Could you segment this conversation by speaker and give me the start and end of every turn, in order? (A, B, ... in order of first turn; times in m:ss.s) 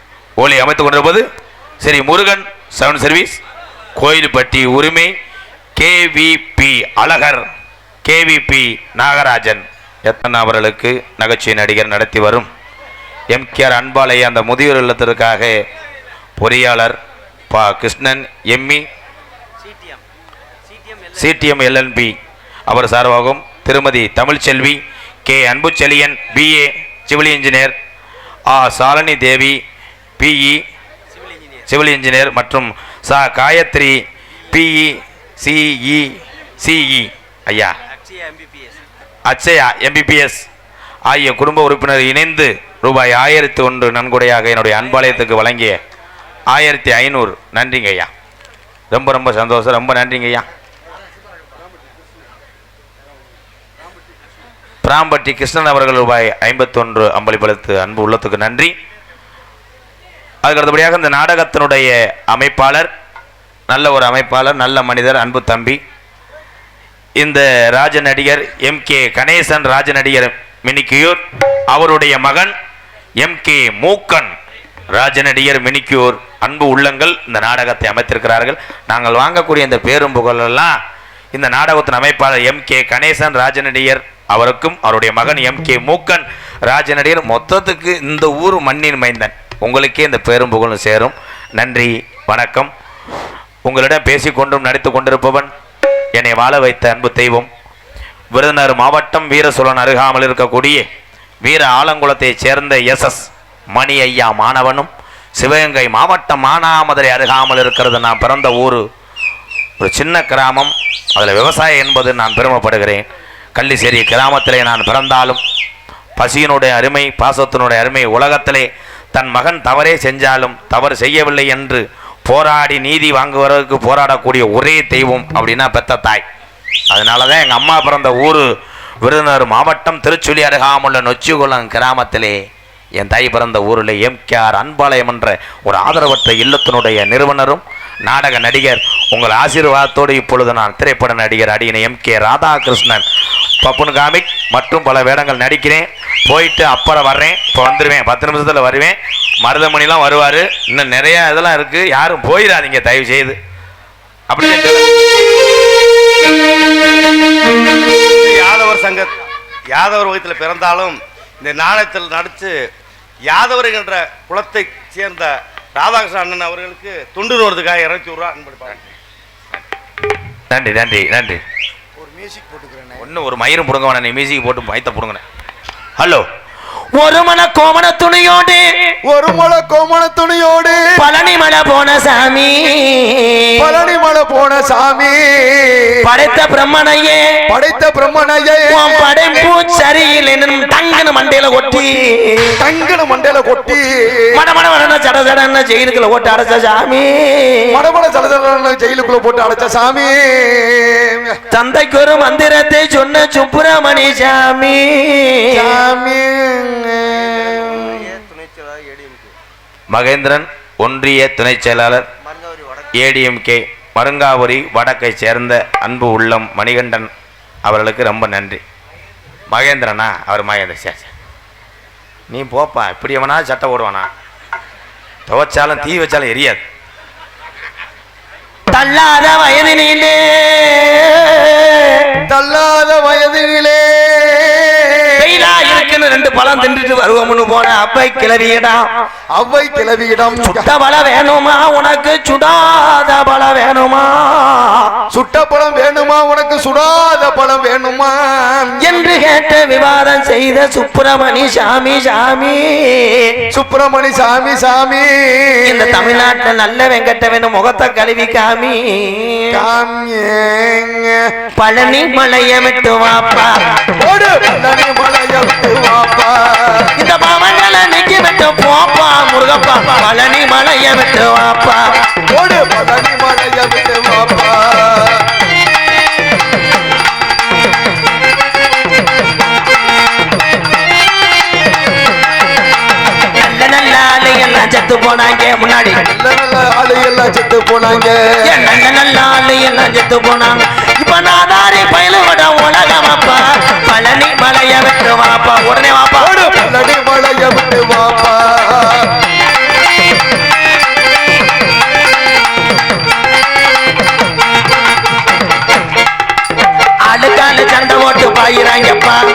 0:00.4-0:01.3 A
0:01.8-0:03.4 A
0:04.0-0:05.2 A
0:05.8-0:07.4 A
0:08.0-0:12.5 A
0:13.3-0:15.6 A
0:16.4-0:17.0 A
0:17.5-0:18.8 A
0:21.1-0:22.1 A
0:22.7-0:27.8 A
0:28.5-0:29.6 A
0:30.2-0:30.6 A
0:31.7-0:34.0 A
0:34.5-0:37.7 A
0:39.3-0:40.4 A
0:41.1-0:45.8 A
0:46.5-0:48.1 A
0:48.9-0:50.5 A
0:54.8-0:58.7 A
1:00.4-1:02.9 A
1:03.7-1:05.8 A
1:07.2-1:12.5 A
1:13.2-1:14.3 A
1:14.9-1:20.7 A
1:21.3-1:32.7 A
1:33.7-1:35.5 A
1:36.2-1:37.5 A
1:38.3-1:40.8 A
1:41.4-1:48.8 A
1:49.8-1:53.0 A
1:53.6-1:55.4 A
1:56.2-2:06.2 A
2:06.9-2:08.5 A
2:09.0-2:12.4 A
2:13.0-2:23.0 A
2:23.6-2:33.4 A
2:34.3-2:34.8 A
2:38.0-2:39.1 B
2:39.7-2:42.7 B
2:43.3-2:48.9 B
2:50.5-2:51.4 A
2:52.0-2:53.0 C
2:53.0-2:55.2 A
2:56.0-2:56.2 A
2:57.0-2:58.9 A
2:59.0-3:00.9 C
3:01.0-3:03.6 A
3:03.6-3:06.0 C
3:06.0-3:07.3 A
3:07.5-3:09.1 C
3:08.7-3:12.6 A
3:12.6-3:14.3 C
3:14.3-3:17.8 A
3:17.7-3:21.4 C
3:21.5-3:25.7 A
3:25.5-3:28.2 C
3:29.9-3:32.0 A
3:32.9-3:37.1 A
3:37.6-3:38.6 A
3:39.5-3:41.1 A
3:42.3-3:44.1 A
3:45.3-3:46.6 A
3:48.7-3:52.2 A
3:52.3-3:55.2 C
3:55.2-3:58.8 A
3:59.4-4:00.7 C
4:00.3-4:05.0 A
4:05.1-4:08.8 C
4:08.8-4:13.4 A
4:13.5-4:16.1 C
4:15.6-4:19.6 A
4:19.5-4:21.3 C
4:21.6-4:23.7 A
4:24.0-4:26.9 C
4:27.0-4:31.9 A
4:32.3-4:35.3 C
4:43.3-4:46.0 A
4:46.1-4:48.2 C
4:48.5-4:56.4 A
4:56.2-4:59.2 C
5:07.1-5:09.2 A